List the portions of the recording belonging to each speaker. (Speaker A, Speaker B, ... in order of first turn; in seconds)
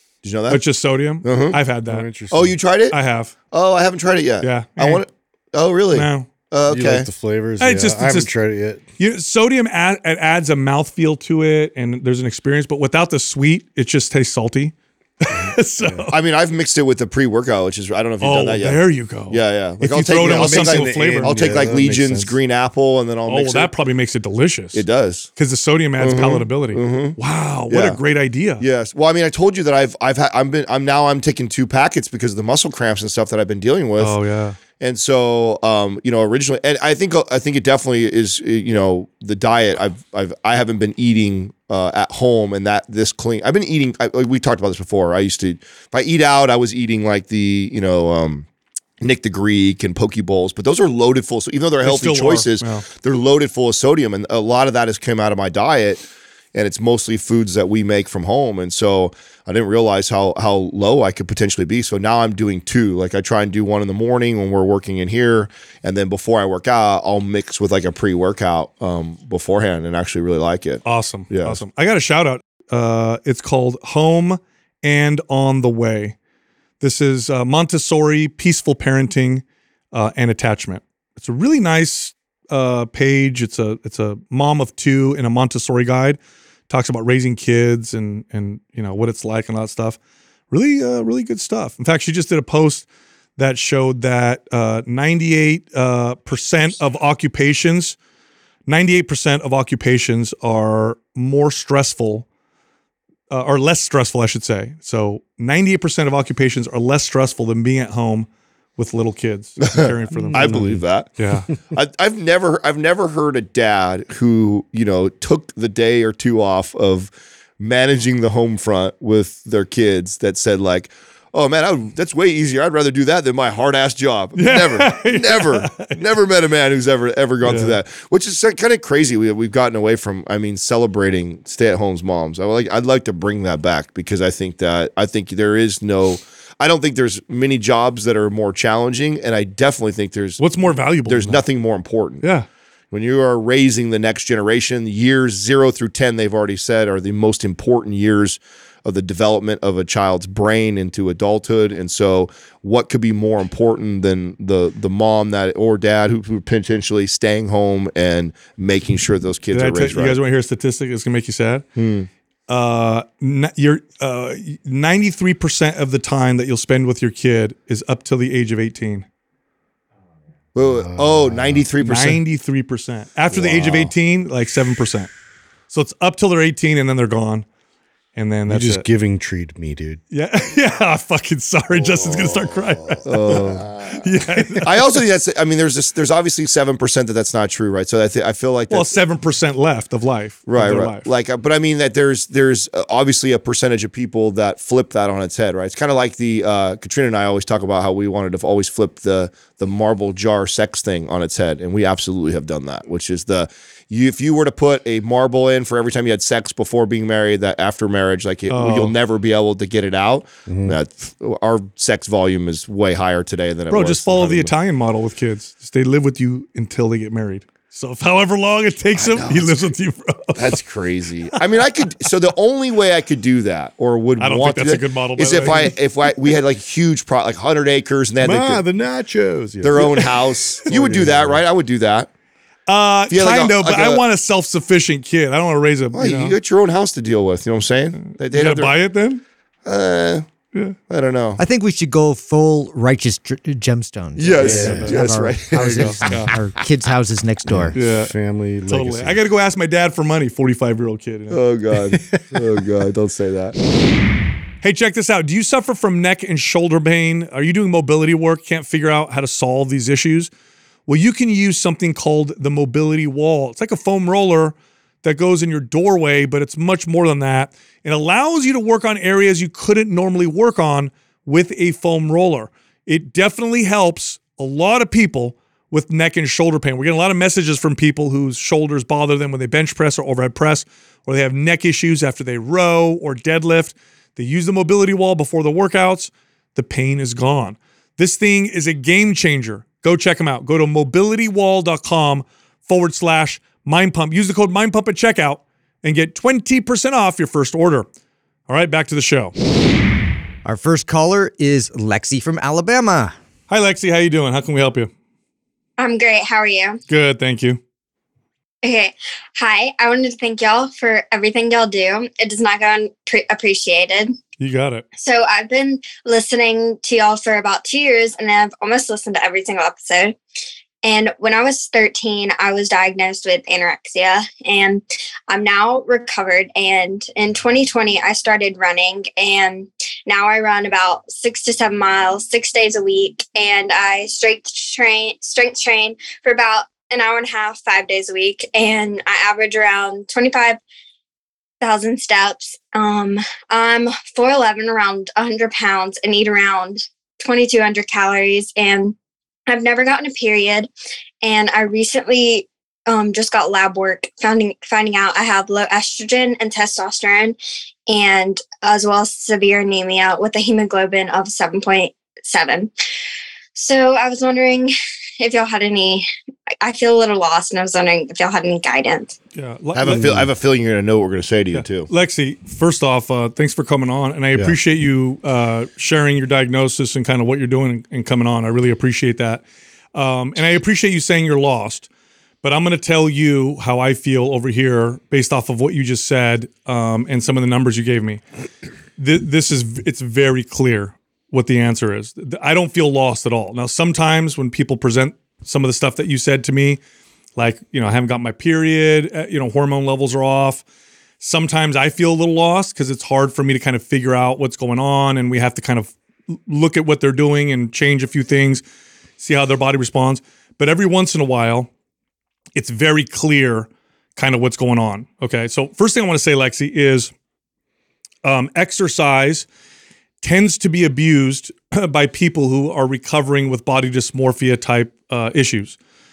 Speaker A: 0.2-1.6, 2.3-3.0, 3.5-7.1, 16.1-23.7, 24.7-25.3, 26.0-27.2, 27.7-28.0, 28.6-34.2, 34.8-48.5, 49.0-71.6, 109.6-142.2, 142.9-160.2, 161.8-162.1, 170.5-172.2, 173.3-173.9, 183.0-189.0, 190.5-214.5, 218.9-219.5, 220.3-228.6, 229.6-232.1, 233.1-234.0, 235.9-238.8, 239.6-240.3, 240.9-241.4, 244.2-246.0, 251.3-253.6, 369.7-371.9
Speaker B: 0.5-2.1, 2.9-3.3, 4.4-5.0, 5.9-6.3, 7.6-8.3, 9.0-16.1, 18.2-21.8, 23.2-24.8, 25.4-28.6, 34.0-34.6, 51.8-52.8, 70.8-76.2, 76.8-90.0, 90.5-92.8, 93.4-98.0, 98.7-102.2, 103.3-110.6, 111.2-111.5, 124.3-126.0, 127.4-127.8, 140.4-141.4, 142.2-142.5, 159.5-161.6, 162.5-169.1, 171.8-175.1, 175.7-177.4, 178.2-178.8, 180.1-185.0, 188.7-191.1, 208.5-208.9, 213.7-220.6, 224.2-225.7, 232.7-236.3, 238.1-239.2, 244.4-245.0, 245.5-246.3, 247.7-248.1, 248.7-251.4, 254.6-260.3, 260.9-297.9, 298.5-299.3, 303.5-304.9, 306.9-307.6, 314.4-314.8, 369.3-370.1, 371.5-379.4, 379.9-381.9, 382.4-388.2, 389.0-396.8, 397.4-400.6, 401.2-408.6, 409.2-411.7, 412.6-417.1, 418.2-419.5, 420.2-425.8
Speaker C: 1.9-2.5, 6.7-8.8, 15.3-16.1, 20.2-22.4, 110.3-110.8, 170.6-171.7, 178.5-180.0, 181.9-183.6, 210.5-210.8, 228.2-231.4, 244.4-245.2, 247.4-249.2, 369.9-370.3
Speaker D: 241.4-247.8, 300.4-303.1
Speaker E: 305.8-306.8, 308.6-314.1, 315.0-320.1, 320.8-340.6, 341.6-348.9, 349.5-350.7, 351.2-357.4, 357.9-362.7, 363.5-366.1, 366.6-369.1